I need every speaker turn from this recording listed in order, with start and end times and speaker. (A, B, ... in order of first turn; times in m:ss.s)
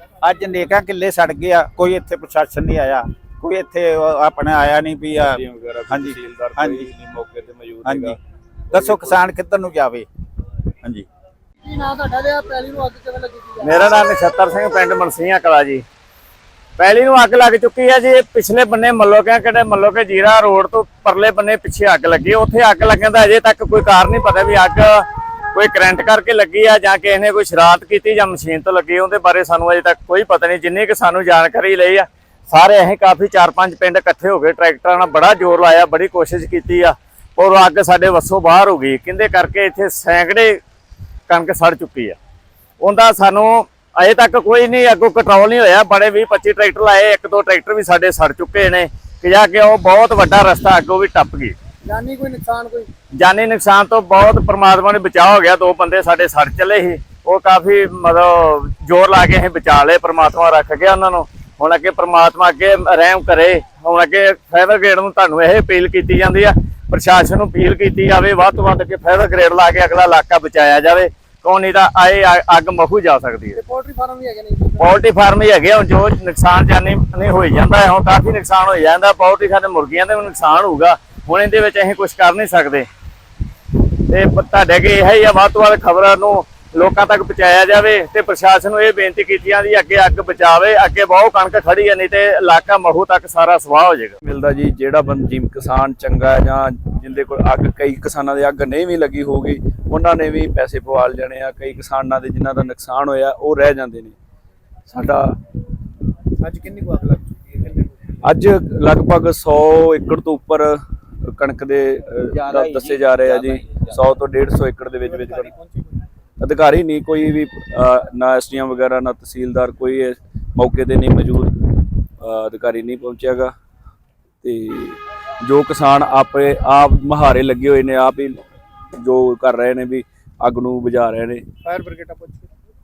0:00.2-0:06.9 A
0:05.2-0:08.2 B
0:07.8-0:08.2 A
0:08.7-0:09.3 B
0:08.7-0:10.1 A
0:11.6-0:13.6 C
0:13.6-0:15.8 D
0:16.8-0:40.6 D
0:41.3-0:42.2 D
0:42.8-0:51.6 D
0:51.9-0:52.9 C
0:53.2-1:13.6 D
1:13.6-1:14.9 C
1:14.8-1:22.9 D
1:24.1-1:34.2 D
1:34.2-1:44.2 B
1:44.9-1:45.4 B
1:46.4-1:48.1 C
1:48.2-1:50.8 B
1:51.3-1:55.5 B
1:52.3-1:54.1 A
1:55.0-1:55.9 C
1:56.4-2:03.5 B
2:04.4-2:08.4 B
2:09.0-2:11.4 B
2:11.6-2:12.5 C